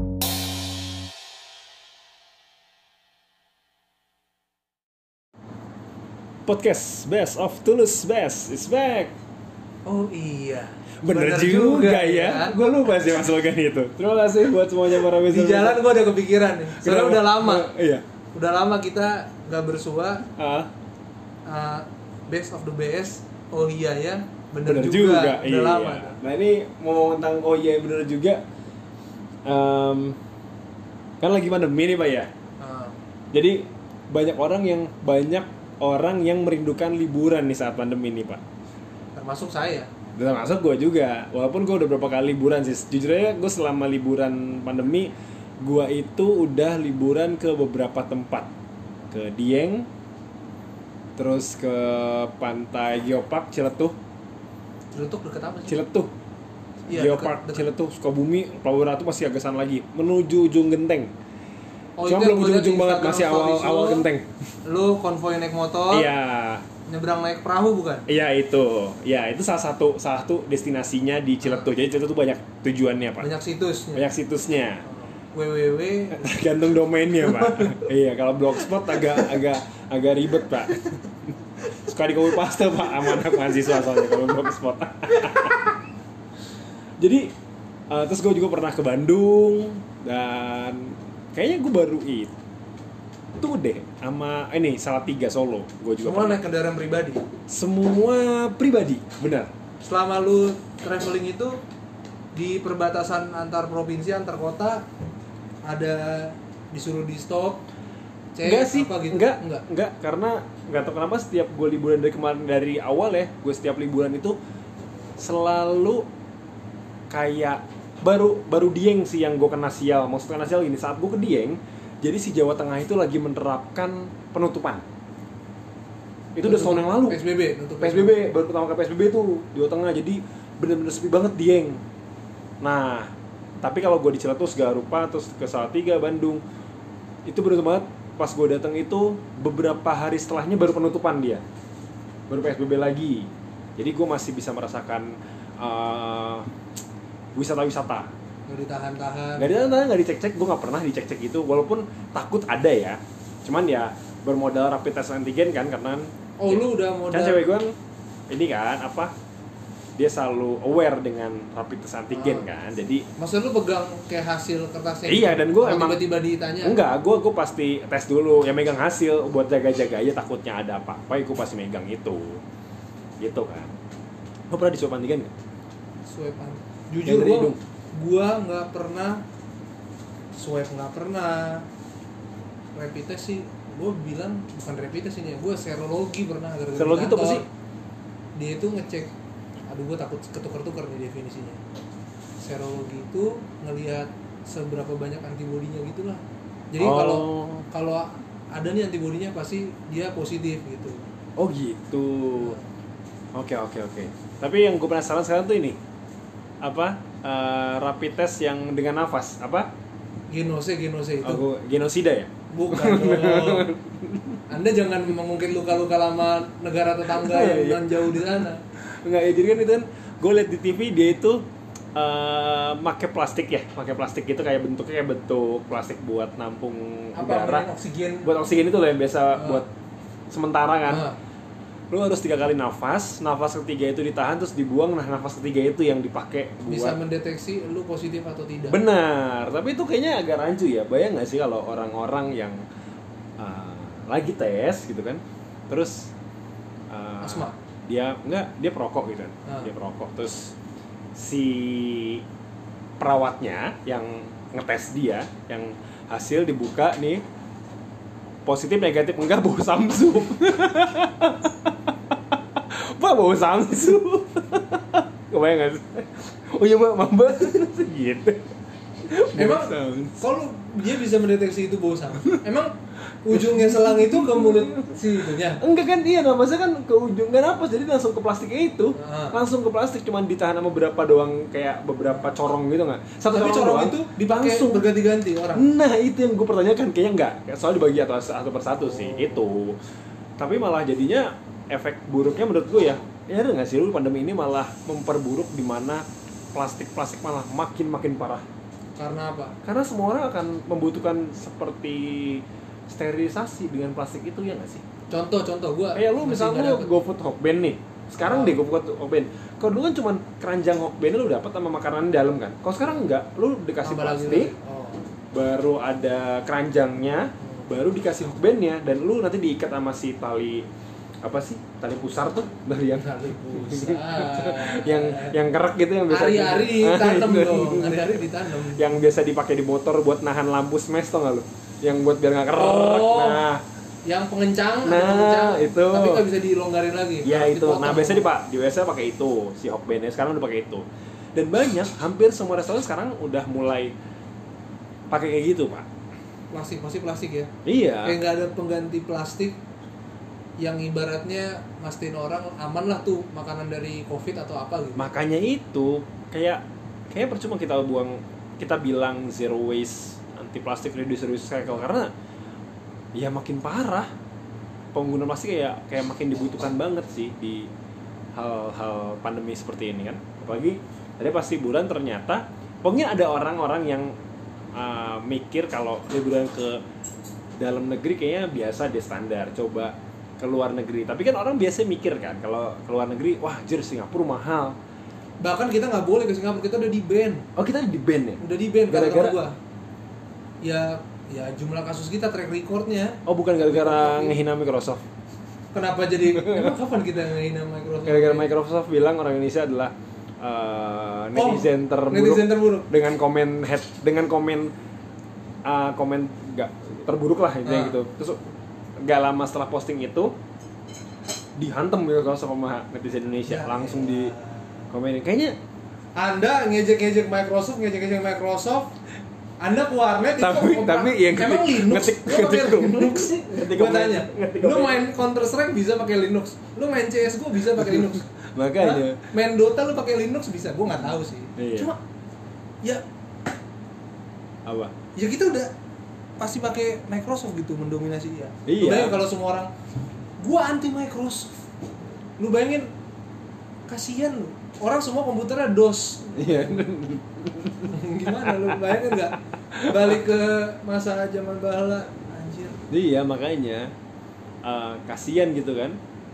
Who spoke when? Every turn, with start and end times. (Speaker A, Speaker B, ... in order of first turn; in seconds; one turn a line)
Speaker A: 6.5-9.1
Speaker B: 9.8-12.6
Speaker A: 11.0-15.8
Speaker B: 15.2-17.7
Speaker A: 16.7-18.0
Speaker B: 18.3-20.2
Speaker A: 20.4-20.7
Speaker B: 21.4-26.2
Speaker A: 24.7-28.4
Speaker A: 29.4-30.2
Speaker A: 31.2-32.3
Speaker B: 32.6-33.0
Speaker A: 33.3-38.4
Speaker B: 39.1-39.9
Speaker A: 40.2-48.5
Speaker A: 49.1-49.9
Speaker A: 51.2-54.0
Speaker B: 54.9-55.8
Speaker A: 55.7-56.1
Speaker B: 56.9-57.6
Speaker A: 56.9-61.1
Speaker B: 62.0-64.1
Speaker A: 62.0-64.3
Speaker B: 64.7-66.1
Speaker A: 65.9-66.7
Speaker B: 66.9-68.1
Speaker A: 68.1-73.3
Speaker B: 73.2-74.1
Speaker A: 73.9-74.8
Speaker B: 74.9-76.3
Speaker A: 76.1-85.8
Speaker B: 77.2-77.8
Speaker B: 78.9-79.4
Speaker B: 82.9-83.9
Speaker B: 85.3-85.5
Speaker A: 87.0-87.3
Speaker A: 87.9-92.3
Speaker A: 93.4-96.4
Speaker B: 96.0-97.2
Speaker A: 97.5-99.5
Speaker B: 99.8-101.6
Speaker B: 102.3-104.8
Speaker B: 105.7-107.6
Speaker B: 108.3-109.6
Speaker A: 108.4-114.4
Speaker A: 115.2-116.0
Speaker A: 117.1-124.8
Speaker A: 126.3-127.2
Speaker B: 126.4-128.2
Speaker A: 127.8-131.8
Speaker A: 132.6-136.4
Speaker A: 137.2-141.4
Speaker A: 142.3-146.5
Speaker A: 147.3-148.1
Speaker B: 148.5-149.8
Speaker A: 149.4-157.8
Speaker B: 156.4-157.5
Speaker A: 158.3-159.1
Speaker A: 160.0-163.1
Speaker B: 162.1-162.5
Speaker B: 163.2-166.8
Speaker A: 165.1-166.0
Speaker A: 166.6-172.4
Speaker A: 173.2-173.8
Speaker A: 174.5-175.3
Speaker B: 176.1-179.2
Speaker A: 177.1-177.6
Speaker B: 180.3-181.7
Speaker B: 182.8-187.4
Speaker A: 186.8-187.5
Speaker B: 188.4-189.1
Speaker B: 189.7-191.6
Speaker B: 192.4-201.1
Speaker A: 196.8-197.7
Speaker A: 201.4-202.6
Speaker B: 202.4-202.6
Speaker A: 203.3-205.8
Speaker A: 206.6-209.7
Speaker B: 210.3-211.4
Speaker A: 211.2-214.4
Speaker B: 212.5-213.7
Speaker B: 214.5-218.6
Speaker A: 217.1-227.7
Speaker B: 227.2-228.3
Speaker A: 228.2-229.7
Speaker B: 229.3-229.6
Speaker A: 230.3-231.1
Speaker B: 230.9-231.2
Speaker A: 231.9-237.0
Speaker B: 236.7-238.8
Speaker A: 238.7-242.6
Speaker A: 243.4-246.1
Speaker A: 246.9-250.6
Speaker B: 247.2-247.6
Speaker B: 249.4-249.7
Speaker A: 251.1-252.2
Speaker A: 253.0-257.2
Speaker A: 258.4-270.2
Speaker B: 269.3-275.6
Speaker A: 273.3-284.9
Speaker B: 278.9-279.4
Speaker B: 283.3-285.7
Speaker A: 285.5-289.8
Speaker B: 288.9-289.4
Speaker A: 290.4-298.4
Speaker B: 298.9-299.6
Speaker A: 299.6-304.8
Speaker B: 305.1-306.9
Speaker A: 305.9-314.5
Speaker B: 308.2-308.6
Speaker B: 313.8-315.1
Speaker A: 315.3-320.7
Speaker A: 321.2-333.6
Speaker B: 322.9-325.4
Speaker B: 326.1-328.9
Speaker B: 332.5-333.4
Speaker B: 334.1-338.3
Speaker A: 334.9-336.2
Speaker A: 337.2-340.8
Speaker A: 341.4-343.9
Speaker A: 345.1-345.9
Speaker B: 346.5-347.5
Speaker A: 347.6-348.2
Speaker B: 348.0-349.6
Speaker B: 350.6-355.1
Speaker A: 354.9-362.1
Speaker A: 363.1-364.1
Speaker A: 364.9-367.7
Speaker A: 368.4-374.1
Speaker A: 374.7-376.8
Speaker A: 377.6-384.8
Speaker B: 385.4-387.4
Speaker A: 387.6-389.4
Speaker B: 388.4-389.6
Speaker B: 390.6-394.4
Speaker A: 393.2-395.0
Speaker B: 395.7-398.5
Speaker A: 396.3-396.8
Speaker A: 398.1-404.7
Speaker B: 401.4-402.9
Speaker A: 405.6-408.4
Speaker B: 407.6-408.0
Speaker A: 409.0-410.4
Speaker A: 411.6-414.3
Speaker B: 413.5-414.9
Speaker A: 414.9-415.6
Speaker B: 416.2-418.9
Speaker B: 419.6-428.3
Speaker A: 420.4-425.1
Speaker A: 427.6-429.3
Speaker B: 428.8-432.0
Speaker A: 431.6-431.9
Speaker A: 434.6-434.9
Speaker B: 435.2-435.7
Speaker B: 436.4-439.7
Speaker A: 438.7-439.2
Speaker B: 440.4-441.5
Speaker B: 442.4-442.9
Speaker B: 443.9-446.9
Speaker A: 446.4-450.2
Speaker B: 447.9-452.8
Speaker A: 452.9-453.9
Speaker A: 454.6-456.0